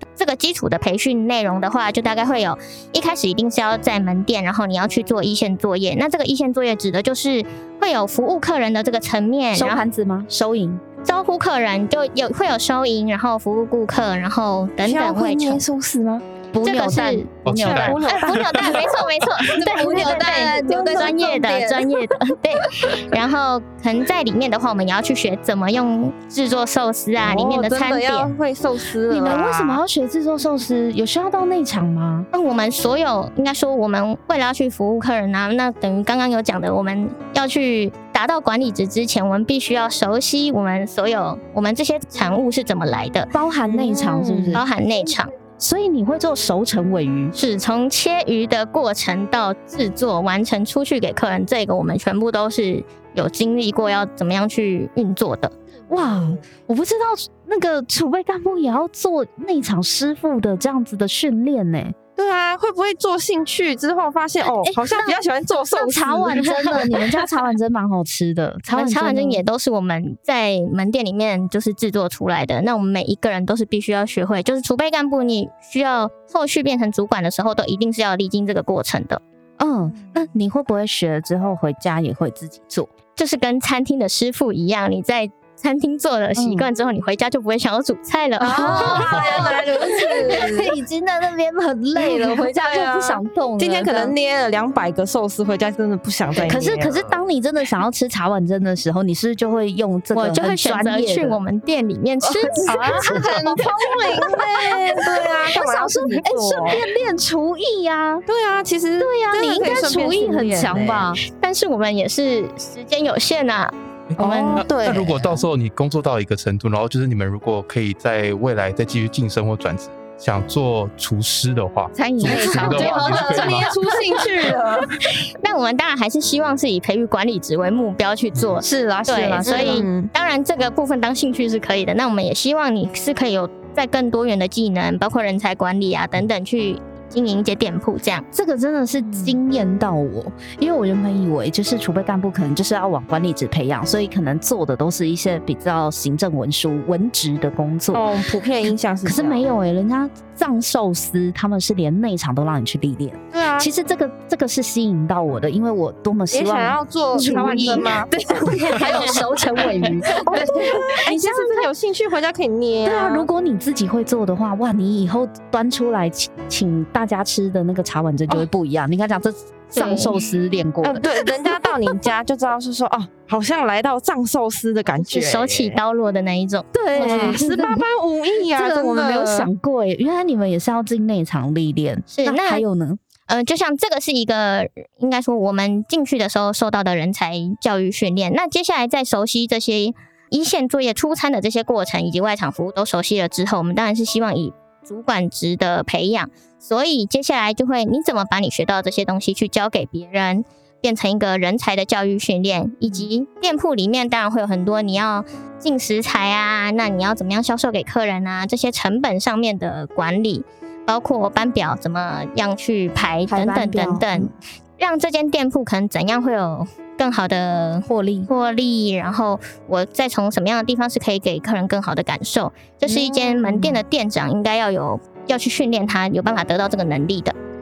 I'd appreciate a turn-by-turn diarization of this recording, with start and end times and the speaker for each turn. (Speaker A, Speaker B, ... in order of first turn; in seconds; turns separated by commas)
Speaker A: 0.2-9.8, Speaker B: 9.5-10.8, Speaker A: 11.0-15.6, Speaker C: 14.8-16.2, Speaker B: 16.5-18.9, Speaker A: 16.6-17.3, Speaker D: 17.4-18.0, Speaker C: 17.5-21.9, Speaker A: 18.0-28.3, Speaker B: 19.5-21.5, Speaker C: 27.2-29.8, Speaker B: 29.1-32.3, Speaker A: 32.3-43.3, Speaker B: 43.3-44.6, Speaker C: 43.7-44.6, Speaker A: 44.5-45.3, Speaker B: 45.6-47.3, Speaker A: 47.3-55.5, Speaker B: 55.9-62.0, Speaker C: 62.1-67.3, Speaker B: 64.4-69.4, Speaker A: 68.7-79.2, Speaker B: 79.6-82.9, Speaker A: 83.2-89.1, Speaker B: 86.3-86.7, Speaker C: 88.4-90.7, Speaker B: 88.4-94.2, Speaker C: 92.0-97.2, Speaker B: 96.4-101.4, Speaker A: 100.1-103.0, Speaker B: 102.2-108.2, Speaker C: 102.6-106.8, Speaker C: 108.3-111.1, Speaker B: 109.0-111.2, Speaker A: 111.3-114.6, Speaker D: 114.1-123.8, Speaker C: 114.2-115.4, Speaker B: 122.0-124.4, Speaker C: 122.2-125.0, Speaker A: 125.4-138.2, Speaker B: 128.6-129.9, Speaker C: 129.4-130.1, Speaker B: 138.3-148.1, Speaker C: 139.1-139.4, Speaker C: 147.9-149.4, Speaker B: 149.0-161.7, Speaker C: 153.3-153.7, Speaker C: 156.3-159.3, Speaker C: 160.1-163.3, Speaker B: 162.8-171.3, Speaker A: 169.7-170.1, Speaker C: 170.8-175.8, Speaker A: 175.0-177.4, Speaker B: 176.7-177.8, Speaker C: 176.9-179.5, Speaker B: 178.5-183.0, Speaker A: 182.1-182.6, Speaker A: 183.3-227.3, Speaker B: 213.3-214.3, Speaker B: 217.9-218.3, Speaker B: 222.8-223.8